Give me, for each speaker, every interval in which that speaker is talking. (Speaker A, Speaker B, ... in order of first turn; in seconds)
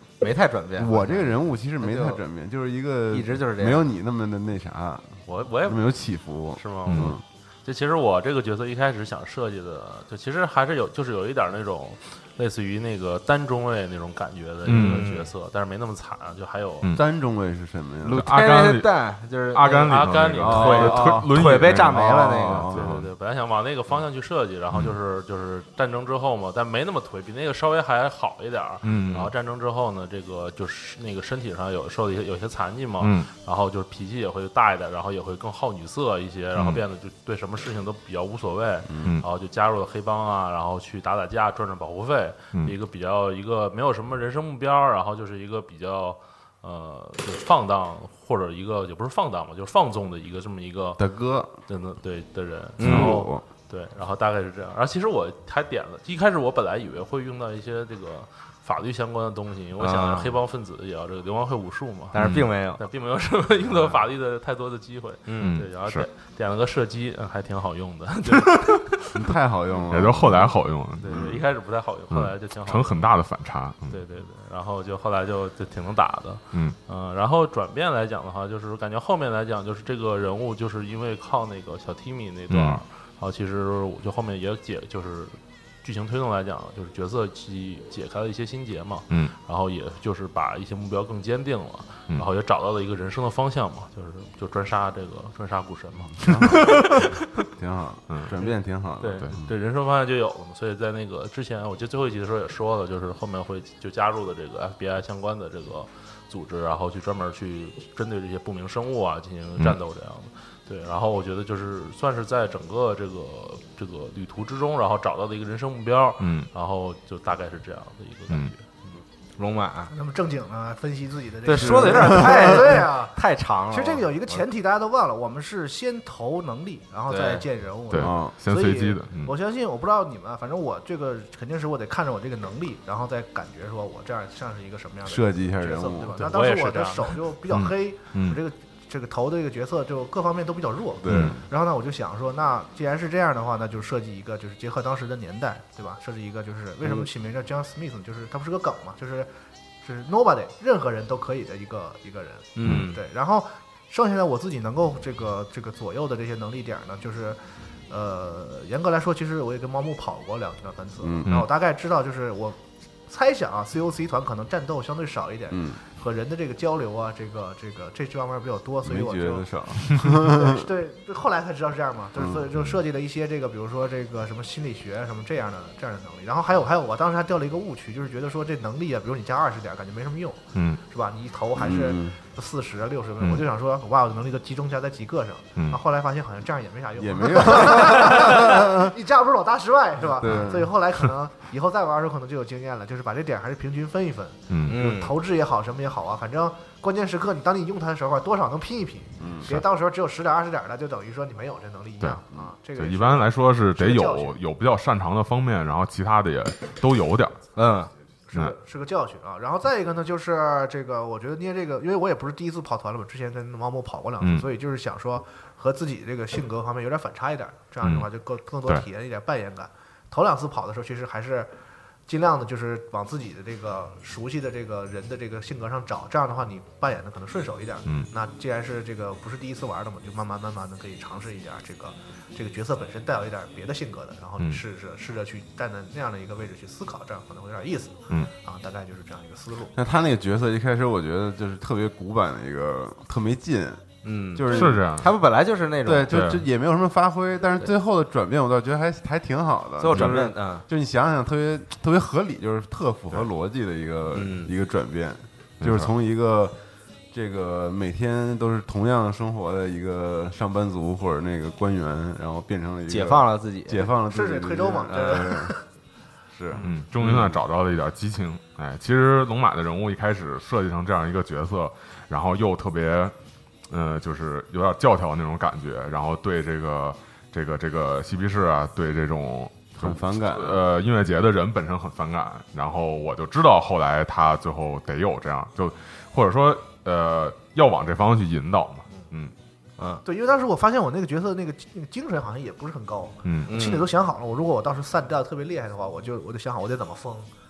Speaker A: 0.2-2.2, 3.1-3.9, 14.7-15.3, 18.1-20.0, 20.5-22.7, 52.8-53.1, 59.8-60.3, 62.1-62.8, 65.3-65.6, 119.4-119.9, 121.5-124.4, 127.1-127.4, 152.6-153.0, 194.7-195.2, 207.6-207.9, 244.0-246.2, 249.8-250.6, 254.2-254.5, 262.9-263.9, 293.5-293.9
Speaker B: 0.8-7.2, 16.9-18.2, 20.4-23.0, 51.0-51.5, 52.8-53.4, 69.1-70.4, 71.1-71.4, 96.2-96.8, 97.6-99.3, 121.6-122.5, 128.0-128.3, 135.1-136.3, 141.0-141.4, 161.0-161.4, 165.5-165.8, 168.8-170.7, 172.2-172.8, 181.6-182.2, 187.0-188.9, 190.1-190.7, 199.2-199.6, 239.8-243.8, 244.3-244.8, 245.9-256.6, 257.1-265.6, 266.3-267.4, 279.8-280.6
Speaker C: 5.3-5.9, 6.5-16.9, 19.9-21.2, 22.7-51.0, 51.7-62.2, 62.8-69.0, 71.0-73.0, 73.9-97.2, 99.0-118.6, 136.2-137.2
Speaker D: 6.9-7.2, 14.7-15.1, 18.1-19.0, 19.5-23.1, 28.8-29.3, 33.0-33.3, 36.5-36.8, 52.9-53.1, 62.1-62.5, 65.4-66.1, 69.9-71.4, 72.1-74.0, 82.5-82.8, 116.2-116.5, 127.9-129.3, 137.5-138.4, 141.1-141.4, 152.6-152.9, 180.6-180.8, 194.5-194.8, 202.0-207.4, 214.2-214.5, 217.8-218.1, 244.5-245.1, 246.1-246.4, 249.9-250.2, 255.6-255.9, 266.6-273.1, 273.7-289.3, 293.2-293.5
Speaker E: 119.9-123.2, 123.7-149.3, 149.8-169.5, 170.1-204.4, 208.3-221.5, 222.1-239.7, 264.0-265.6, 290.1-297.3